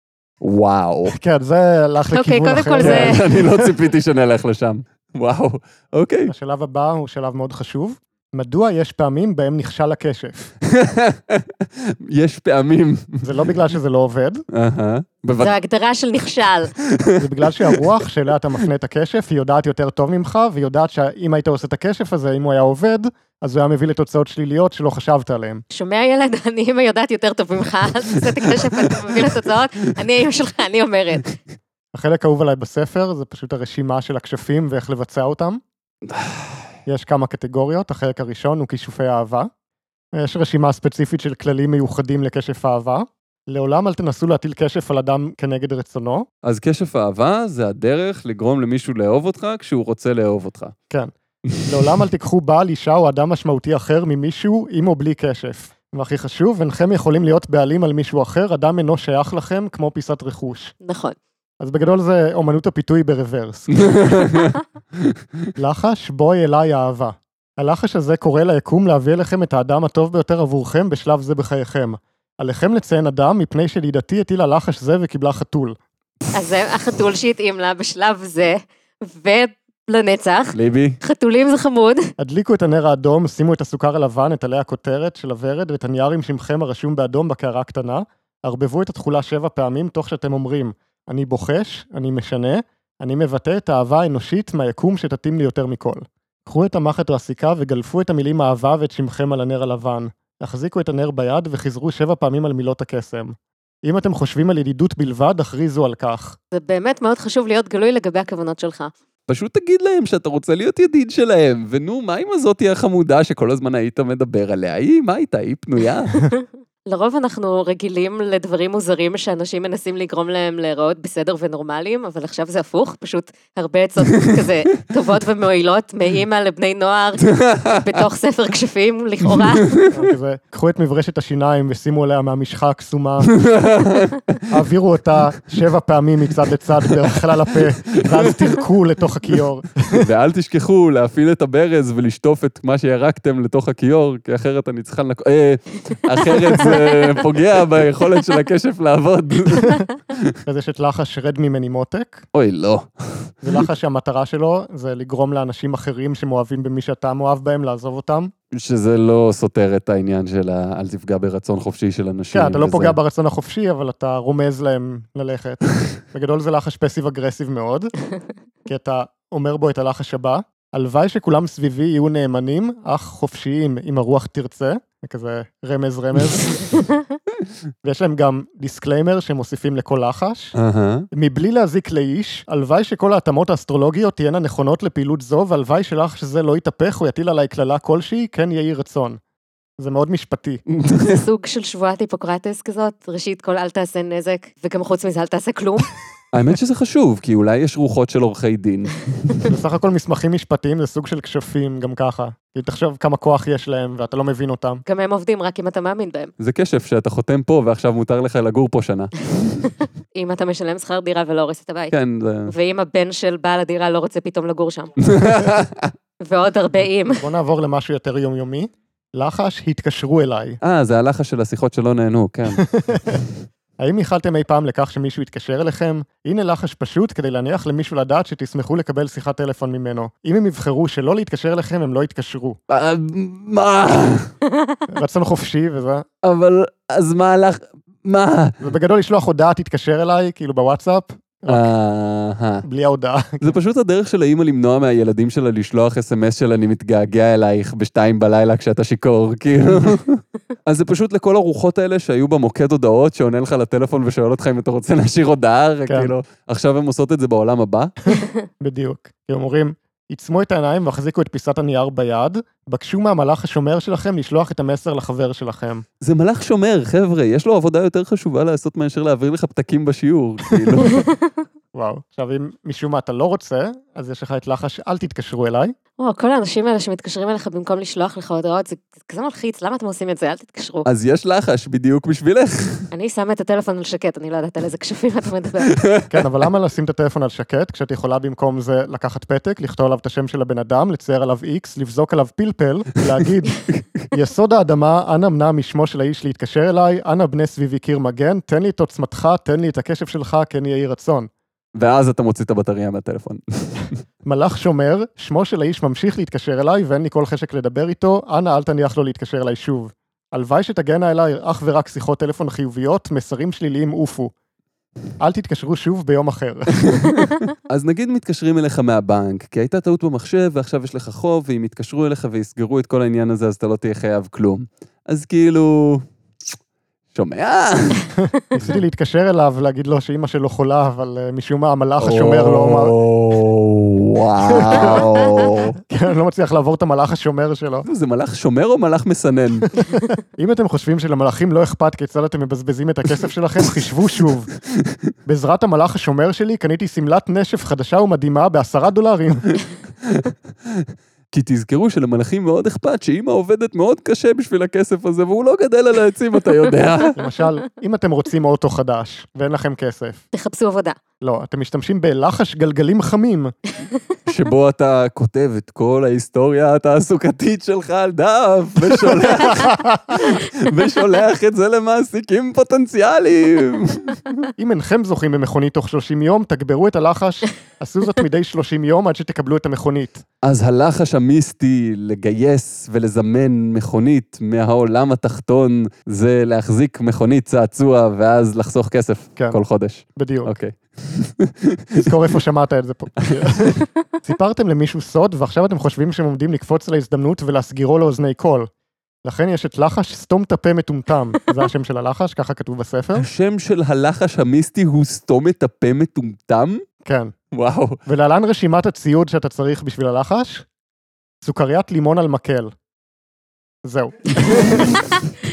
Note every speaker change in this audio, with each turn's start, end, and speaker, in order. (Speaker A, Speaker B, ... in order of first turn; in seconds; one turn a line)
Speaker A: 0.4-1.1
Speaker B: 1.1-3.7
Speaker C: 2.1-3.3
Speaker A: 2.8-6.3
Speaker B: 6.3-10.5
Speaker A: 10.6-13.5
Speaker B: 13.2-14.4
Speaker A: 14.5-15.5
Speaker C: 15.4-16.7
Speaker A: 16.9-17.9
Speaker B: 17.2-25.6
Speaker C: 25.7-31.4
Speaker A: 28.4-29.3
Speaker B: 31.9-35.6
Speaker A: 36.1-36.6
Speaker B: 36.9-39.5
Speaker B: 40.1-46.3
Speaker A: 46.4-50.8
Speaker B: 50.9-60.7
Speaker A: 51.5-52.0
Speaker C: 60.8-61.2
Speaker B: 61.6-64.1
Speaker A: 63.8-65.2
Speaker B: 65.6-75.8
Speaker C: 76.3-82.1
Speaker A: 80.5-81.0
Speaker B: 82.2-106.4
Speaker C: 106.5-108.9
Speaker A: 109.3-116.2
Speaker C: 116.2-129.8
Speaker A: 124.2-124.5
Speaker A: 127.2-128.0
Speaker A: 129.3-129.8
Speaker B: 129.9-133.4
Speaker A: 133.3-134.4
Speaker B: 134.5-140.1
Speaker A: 137.6-138.6
Speaker A: 139.9-150.4
Speaker B: 150.5-152.3
Speaker A: 152.3-153.6
Speaker B: 153.4-158.3
Speaker A: 158.5-163.0
Speaker B: 162.3-167.9
Speaker B: 168.7-176.7
Speaker B: 177.8-180.5
Speaker A: 180.6-181.1
Speaker B: 181.1-189.2
Speaker B: 189.8-190.6
Speaker A: 190.7-191.2
Speaker C: 191.1-195.9
Speaker A: 196.3-199.5
Speaker B: 199.5-204.8
Speaker C: 204.9-206.3
Speaker A: 206.4-209.7
Speaker C: 210.2-215.1
Speaker A: 211.9-212.5
Speaker A: 215.0-215.9
Speaker C: 216.2-217.2
Speaker B: 217.2-220.6
Speaker A: 220.6-223.2
Speaker B: 222.7-223.2
Speaker B: 223.8-232.6
Speaker A: 232.7-234.3
Speaker B: 234.9-236.1
Speaker A: 236.2-238.6
Speaker B: 238.6-241.7
Speaker A: 241.5-242.6
Speaker B: 242.7-243.5
Speaker A: 243.4-257.9
Speaker B: 258.1-265.9
Speaker A: 266.0-271.1
Speaker B: 271.8-275.8
Speaker C: 276.0-280.9
Speaker A: 280.9-282.9
Speaker C: 282.9-285.8
Speaker A: 285.8-286.1
Speaker B: 286.1-293.6
Speaker A: 293.7-294.1
Speaker B: 294.1-301.3
Speaker A: 301.8-303.9
Speaker B: 304.2-314.3
Speaker B: 315.2-317.2
Speaker A: 316.9-326.1
Speaker A: 327.1-328.8
Speaker B: 328.3-333.0
Speaker A: 332.0-335.8
Speaker B: 334.5-337.9
Speaker A: 337.9-339.7
Speaker B: 340.4-344.5
Speaker B: 345.3-349.6
Speaker A: 350.0-357.2
Speaker B: 357.2-360.2
Speaker C: 360.3-361.0
Speaker B: 361.2-363.5
Speaker A: 364.3-374.5
Speaker B: 369.2-370.2
Speaker B: 374.6-380.2
Speaker A: 380.4-392.1
Speaker B: 390.2-390.5
Speaker B: 392.0-398.7
Speaker A: 393.2-393.5
Speaker B: 399.2-403.3
Speaker A: 403.2-406.8
Speaker B: 407.1-407.3
Speaker A: 407.5-408.0
Speaker B: 408.1-410.7
Speaker B: 411.4-412.7
Speaker B: 413.9-415.0
Speaker A: 414.4-415.1